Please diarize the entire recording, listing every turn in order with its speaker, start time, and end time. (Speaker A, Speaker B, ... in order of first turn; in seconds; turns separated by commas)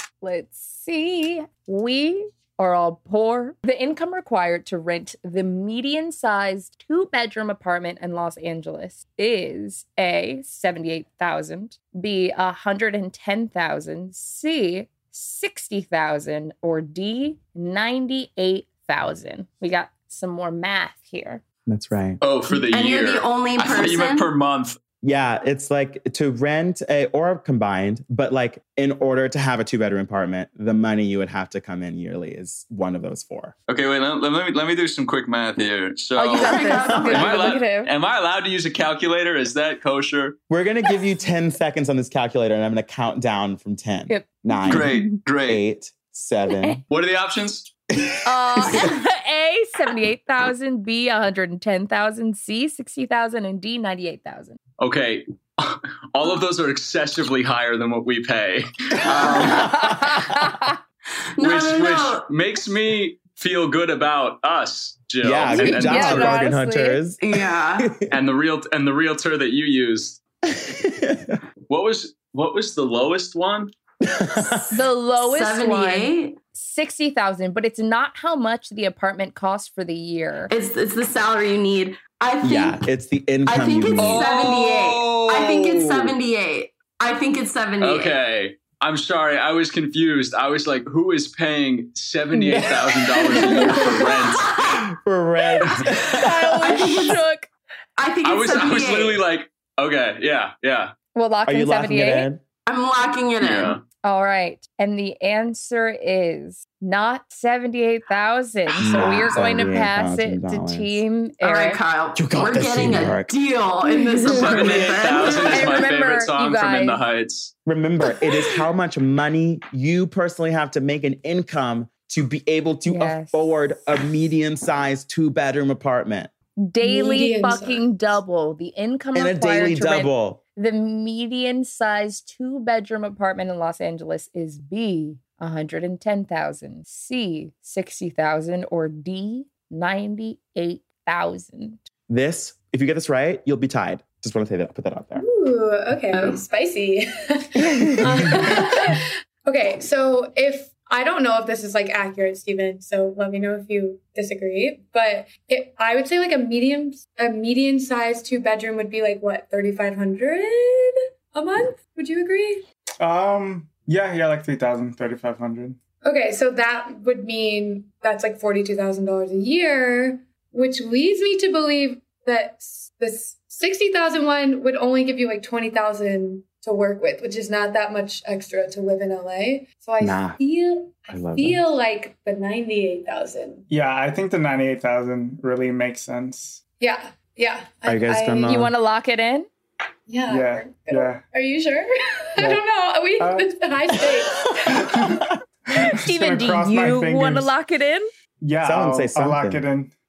Speaker A: 0.2-21.4, Speaker B: 21.6-22.2, Speaker C: 22.2-24.8, Speaker D: 22.5-24.3, Speaker B: 25.0-33.5, Speaker C: 33.7-40.4, Speaker A: 36.1-37.9, Speaker D: 36.4-37.6, Speaker B: 40.5-46.8, Speaker A: 44.1-45.2, Speaker C: 44.7-45.6, Speaker C: 46.9-47.7, Speaker B: 48.0-48.9, Speaker A: 48.2-54.6, Speaker C: 54.8-59.8, Speaker D: 59.2-59.6, Speaker B: 59.2-59.9, Speaker A: 59.6-60.7, Speaker D: 61.4-62.3, Speaker C: 61.4-66.4, Speaker B: 65.2-68.2, Speaker A: 65.5-67.0, Speaker D: 67.2-67.9, Speaker C: 68.1-70.2, Speaker B: 70.5-71.4, Speaker C: 71.7-73.7, Speaker B: 74.0-74.8, Speaker D: 74.5-76.4, Speaker A: 74.7-80.5, Speaker D: 80.5-82.8, Speaker B: 82.4-84.3, Speaker D: 83.5-88.2, Speaker C: 84.0-85.9, Speaker C: 87.8-94.5, Speaker B: 92.4-94.0, Speaker D: 93.4-94.8, Speaker A: 93.4-93.8, Speaker B: 95.0-97.2, Speaker A: 96.0-97.5, Speaker D: 96.6-97.2, Speaker D: 98.0-99.2, Speaker C: 98.2-100.9, Speaker A: 101.1-102.3, Speaker B: 101.5-102.4, Speaker D: 102.7-103.8, Speaker C: 103.4-103.8, Speaker A: 104.0-111.8, Speaker B: 108.8-111.0, Speaker D: 111.4-115.8, Speaker B: 112.2-113.3, Speaker A: 113.9-114.5, Speaker C: 114.3-117.5, Speaker A: 115.2-117.0, Speaker B: 117.7-126.3, Speaker A: 122.8-123.5, Speaker A: 126.6-141.8, Speaker E: 126.8-128.2, Speaker B: 129.1-130.4, Speaker B: 142.1-145.2, Speaker E: 145.2-162.6, Speaker A: 147.6-148.0, Speaker F: 163.0-165.8, Speaker E: 166.0-183.7, Speaker B: 180.0-180.4, Speaker B: 181.1-181.7, Speaker F: 183.7-186.6, Speaker E: 186.8-188.6, Speaker B: 187.8-188.7, Speaker A: 188.4-189.5, Speaker E: 190.1-195.2, Speaker F: 190.3-191.2, Speaker F: 193.2-193.5, Speaker B: 194.1-194.7, Speaker F: 194.8-195.2, Speaker F: 195.7-197.5, Speaker A: 195.9-198.1, Speaker F: 198.4-199.9, Speaker B: 198.6-199.6